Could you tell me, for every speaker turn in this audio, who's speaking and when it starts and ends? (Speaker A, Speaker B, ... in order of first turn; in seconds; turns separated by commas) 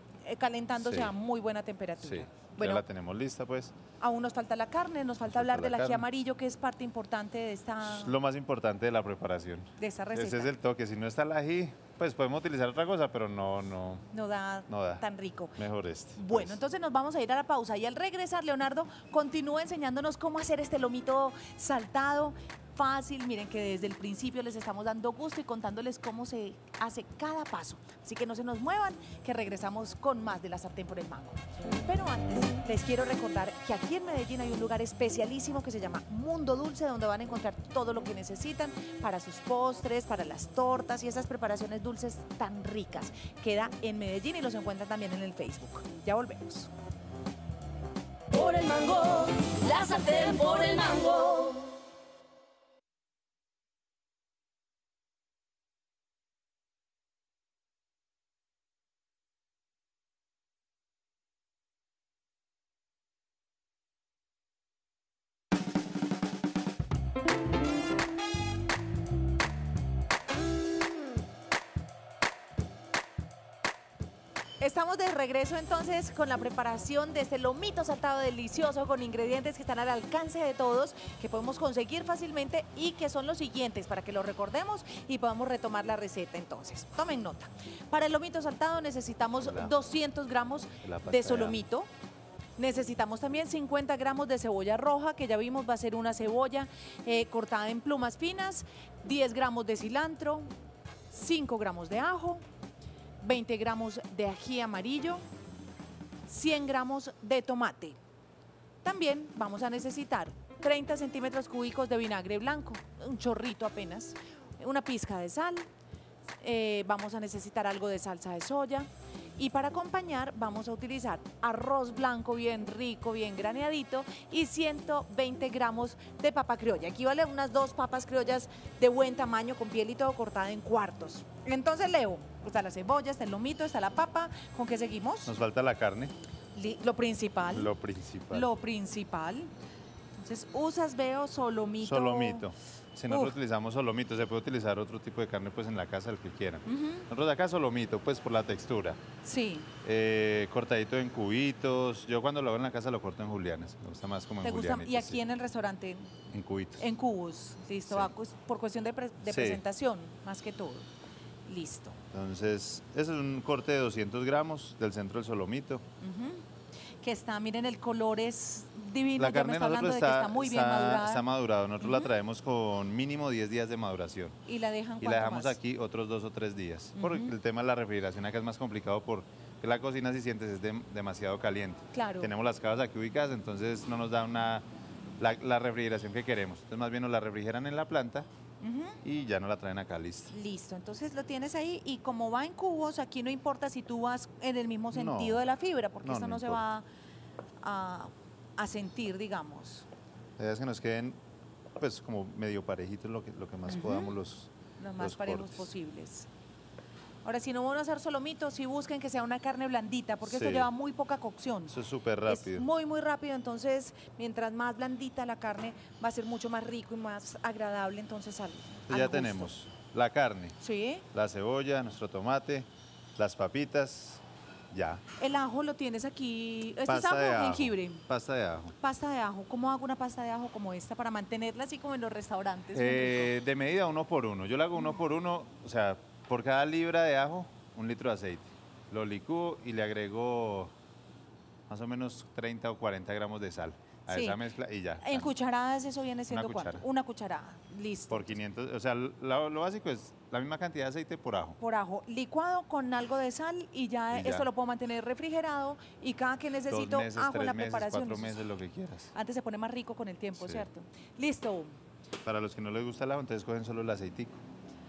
Speaker A: 0.2-2.8, Speaker B: 0.8-1.1, Speaker B: 2.0-3.7, Speaker A: 4.0-8.1, Speaker B: 5.3-6.0, Speaker B: 7.8-14.0, Speaker A: 9.8-10.5, Speaker A: 14.1-15.6, Speaker B: 14.7-15.0, Speaker B: 15.6-16.6, Speaker A: 16.1-46.7, Speaker C: 48.3-51.7, Speaker A: 74.6-91.9, Speaker B: 89.4-89.8, Speaker B: 90.8-91.6, Speaker A: 92.6-100.5, Speaker A: 101.1-102.4, Speaker A: 103.2-105.2, Speaker A: 106.3-108.0, Speaker A: 108.8-115.7, Speaker A: 116.4-135.3, Speaker B: 135.3-136.1, Speaker A: 136.5-137.7, Speaker B: 137.5-138.5, Speaker A: 138.3-139.5, Speaker A: 140.2-142.4, Speaker B: 141.8-149.0, Speaker A: 143.1-143.3, Speaker A: 146.7-147.1, Speaker A: 149.2-149.7, Speaker B: 149.8-155.2, Speaker A: 154.4-156.1, Speaker B: 156.3-156.9, Speaker A: 156.8-160.9, Speaker B: 159.2-159.6, Speaker A: 161.4-162.0, Speaker B: 162.1-165.8, Speaker A: 166.0-166.4, Speaker A: 167.0-171.2, Speaker B: 169.2-174.4, Speaker A: 171.8-172.1, Speaker A: 174.4-175.6, Speaker B: 175.0-184.6, Speaker A: 177.0-177.3, Speaker A: 181.9-182.3, Speaker B: 185.2-188.3, Speaker A: 188.6-189.0, Speaker B: 189.0-190.3, Speaker A: 190.3-196.8, Speaker B: 194.9-195.4, Speaker B: 196.0-196.6, Speaker A: 197.6-199.8, Speaker B: 200.4-201.2, Speaker B: 201.8-205.7, Speaker A: 203.7-204.1, Speaker A: 204.8-206.3, Speaker A: 207.2-211.7, Speaker B: 210.2-210.7, Speaker B: 211.7-212.6, Speaker A: 212.2-219.5, Speaker B: 218.9-220.6, Speaker A: 220.6-221.0, Speaker B: 221.1-225.0, Speaker A: 225.2-228.0, Speaker B: 226.9-228.7, Speaker A: 228.8-233.3, Speaker B: 232.7-240.7, Speaker B: 241.7-245.3, Speaker A: 244.1-244.4, Speaker A: 245.0-248.4, Speaker B: 246.3-246.8, Speaker B: 248.1-251.6, Speaker A: 251.6-258.4, Speaker B: 254.1-254.5, Speaker B: 256.7-259.1, Speaker A: 259.1-261.7, Speaker B: 260.4-260.6, Speaker B: 262.2-264.4